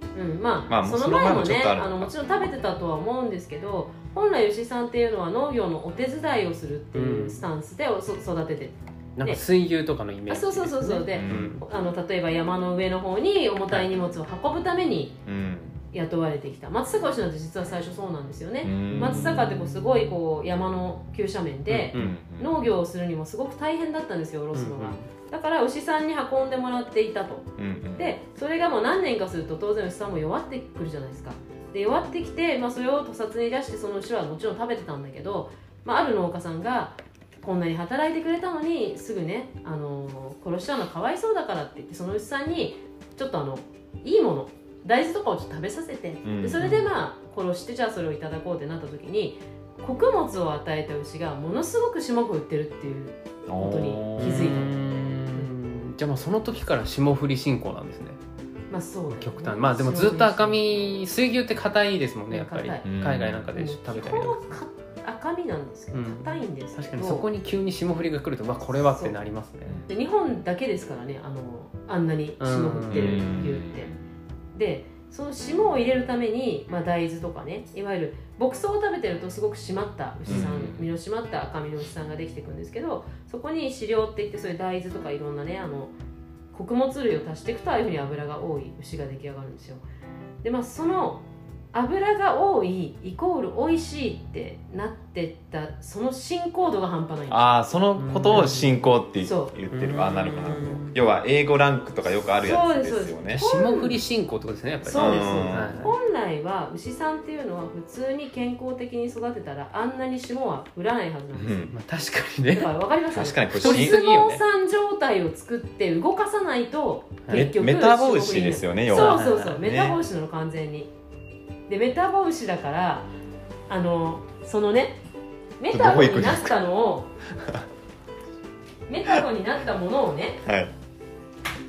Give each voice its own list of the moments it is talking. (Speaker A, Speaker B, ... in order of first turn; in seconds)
Speaker A: 0.1-9.4, 10.3-15.2, 15.9-55.5, 58.7-61.0, 62.3-62.9, 63.5-67.3, 68.8-69.2, 69.9-73.9, 74.5-85.9, 86.5-89.8, 90.4-97.5, 98.3-98.6, 99.2-99.5, 102.4-104.0, 104.8-111.7, 112.5-120.9, 121.7-123.1, 123.7-125.0, 125.6-127.1, 128.9-130.4
Speaker B: 0.7-2.1, 11.2-11.5, 15.2-15.8, 18.6-19.5, 21.9-22.6, 27.6-28.1, 46.2-46.7, 53.5-54.5, 62.8-63.5, 72.9-74.0, 80.2-80.8, 97.3-103.4, 104.9-105.9, 111.3-111.7, 113.1-114.0, 117.3-120.0, 125.7-126.5, 130.4-130.7
Speaker C: 6.9-7.4, 9.2-11.6, 18.9-19.9, 21.7-22.1, 24.5-25.0, 46.6-46.9, 54.2-58.2, 59.1-64.5, 65.9-69.8, 72.4-73.2, 98.0-98.7, 99.7-100.9, 103.3-105.9, 111.7-112.8, 113.5-114.4, 118.9-119.6